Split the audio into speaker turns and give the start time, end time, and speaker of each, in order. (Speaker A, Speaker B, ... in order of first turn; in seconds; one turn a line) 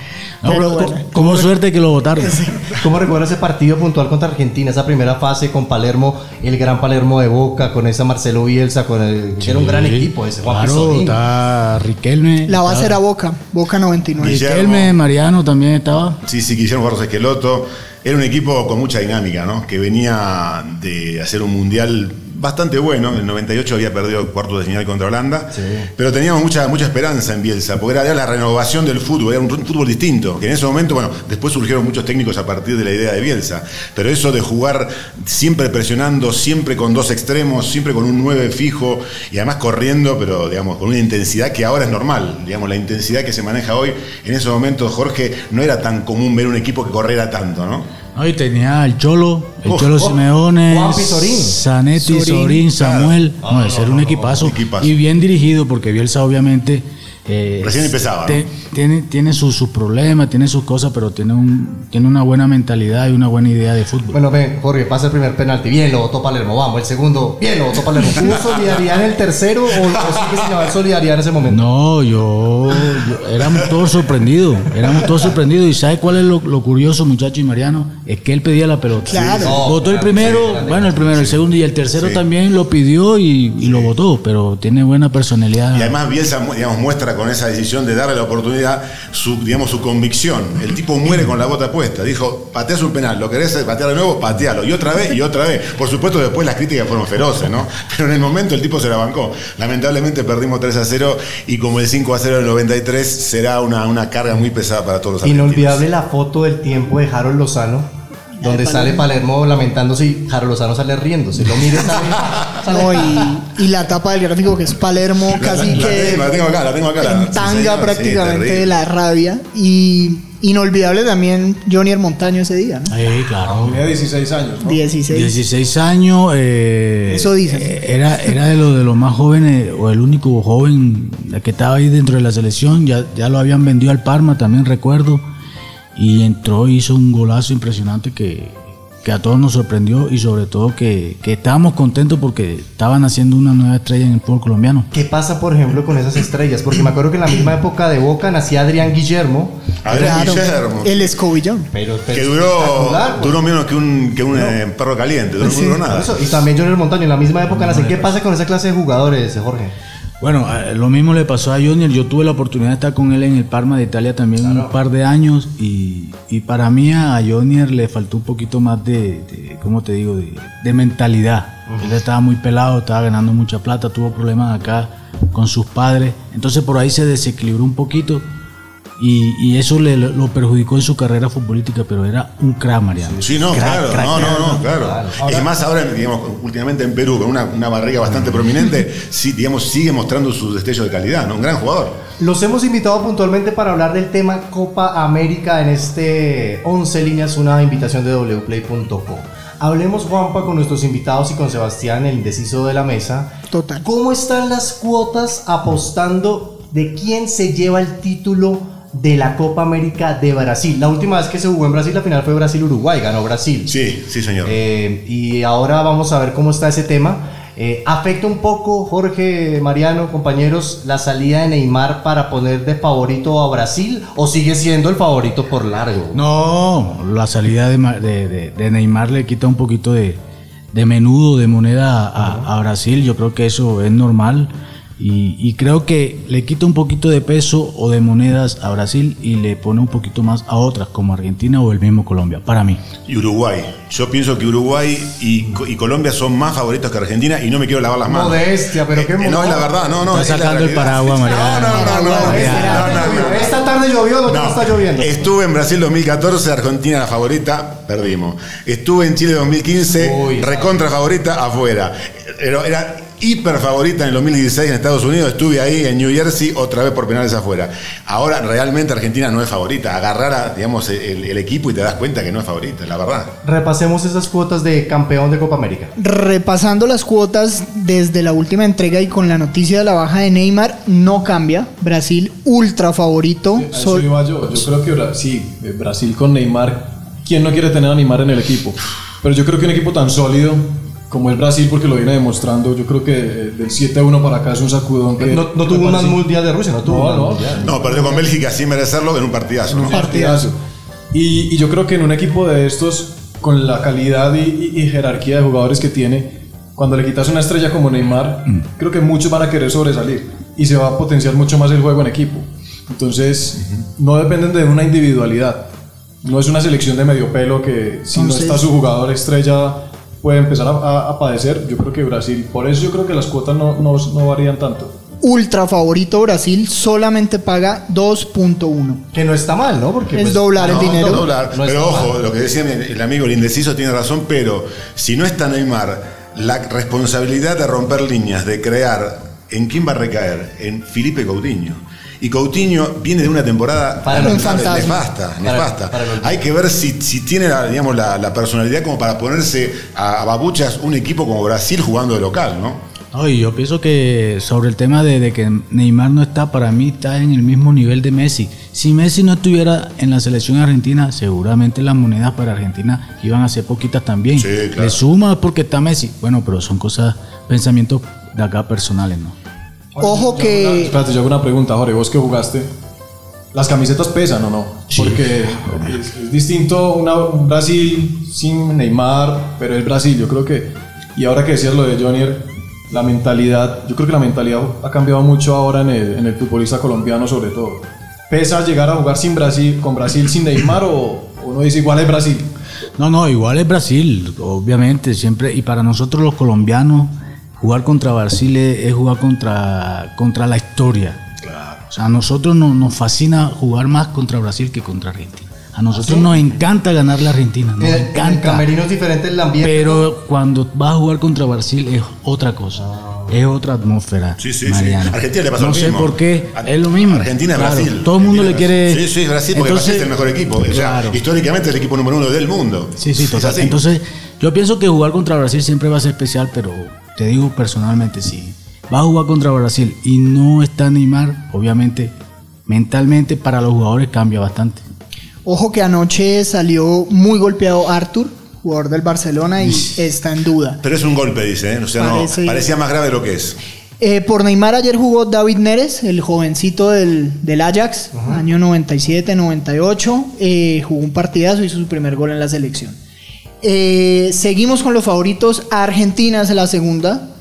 Speaker A: 0.4-2.5
Speaker B: 0.4-1.5
Speaker B: 2.2-2.6
Speaker C: 2.7-11.2
Speaker A: 9.4-13.0
Speaker B: 12.4-14.4
Speaker D: 14.2-14.9
Speaker A: 14.2-16.2
Speaker D: 16.2-47.9
Speaker C: 25.5-25.9
Speaker A: 48.1-64.2
Speaker D: 49.6-50.0
Speaker C: 50.7-51.6
Speaker B: 52.0-52.7
Speaker D: 52.7-54.9
Speaker C: 53.4-54.2
Speaker D: 57.6-58.4
Speaker C: 64.1-71.6
Speaker A: 71.5-85.9
Speaker B: 79.1-79.6
Speaker D: 79.1-80.4
Speaker C: 79.4-81.3
Speaker D: 81.0-81.3
Speaker D: 82.0-82.2
Speaker D: 83.6-83.9
Speaker D: 85.7-105.8
Speaker C: 105.2-107.9
Speaker B: 108.4-109.0
Speaker C: 108.4-113.2
Speaker D: 112.2-112.6
Speaker B: 112.6-122.9
Speaker D: 115.3-118.8
Speaker A: 122.9-123.9
Speaker E: 123.5-124.8
Speaker B: 124.6-125.3
Speaker A: 125.1-135.2
Speaker B: 127.0-127.7
Speaker A: 135.9-144.9
Speaker C: 144.9-150.3
Speaker D: 149.8-151.0
Speaker B: 149.9-151.7
Speaker C: 151.7-153.4
Speaker D: 152.1-156.1
Speaker C: 154.3-154.6
Speaker C: 155.4-159.8
Speaker B: 155.4-155.8
Speaker A: 157.5-158.1
Speaker A: 160.2-178.2
Speaker C: 164.4-164.7
Speaker A: 179.0-184.6
Speaker C: 183.0-183.4
Speaker D: 183.2-192.0
Speaker C: 184.0-185.5
Speaker C: 192.2-213.7
Speaker B: 203.5-203.8
Speaker D: 213.7-214.6
Speaker C: 214.4-226.2
Speaker A: 226.1-230.2
Speaker A: 230.7-242.8
Speaker C: 232.2-232.5
Speaker D: 243.0-253.6
Speaker C: 248.1-249.8
Speaker A: 250.1-252.9
Speaker C: 251.2-255.1
Speaker B: 251.7-253.3
Speaker D: 254.2-273.3
Speaker C: 259.9-260.7
Speaker C: 273.4-275.9
Speaker B: 276.0-284.1
Speaker E: 283.5-296.3
Speaker C: 295.2-298.2
Speaker E: 296.8-297.7
Speaker D: 297.6-300.1
Speaker E: 299.7-300.6
Speaker C: 299.9-300.2
Speaker B: 300.1-300.4
Speaker E: 301.1-315.7
Speaker E: 316.2-324.9
Speaker B: 318.1-318.6
Speaker B: 325.2-329.0
Speaker C: 329.1-332.2
Speaker B: 330.1-331.3
Speaker D: 330.6-352.8
Speaker C: 344.0-346.4
Speaker B: 344.1-345.0
Speaker A: 353.1-369.4
Speaker D: 364.4-365.0
Speaker E: 369.9-372.7
Speaker B: 370.0-370.9
Speaker E: 373.5-392.5
Speaker A: 393.0-401.3
Speaker D: 401.4-401.8
Speaker A: 401.9-408.6
Speaker C: 405.9-406.3
Speaker C: 407.8-410.1
Speaker A: 409.6-420.1
Speaker C: 412.8-413.3
Speaker D: 414.4-423.8
Speaker A: 420.6-421.2
Speaker A: 423.0-432.1
Speaker A: 432.7-434.8
Speaker B: 435.4-440.8
Speaker D: 440.8-443.6
Speaker B: 442.0-442.7
Speaker B: 444.0-453.0
Speaker C: 448.1-448.4
Speaker B: 453.6-457.2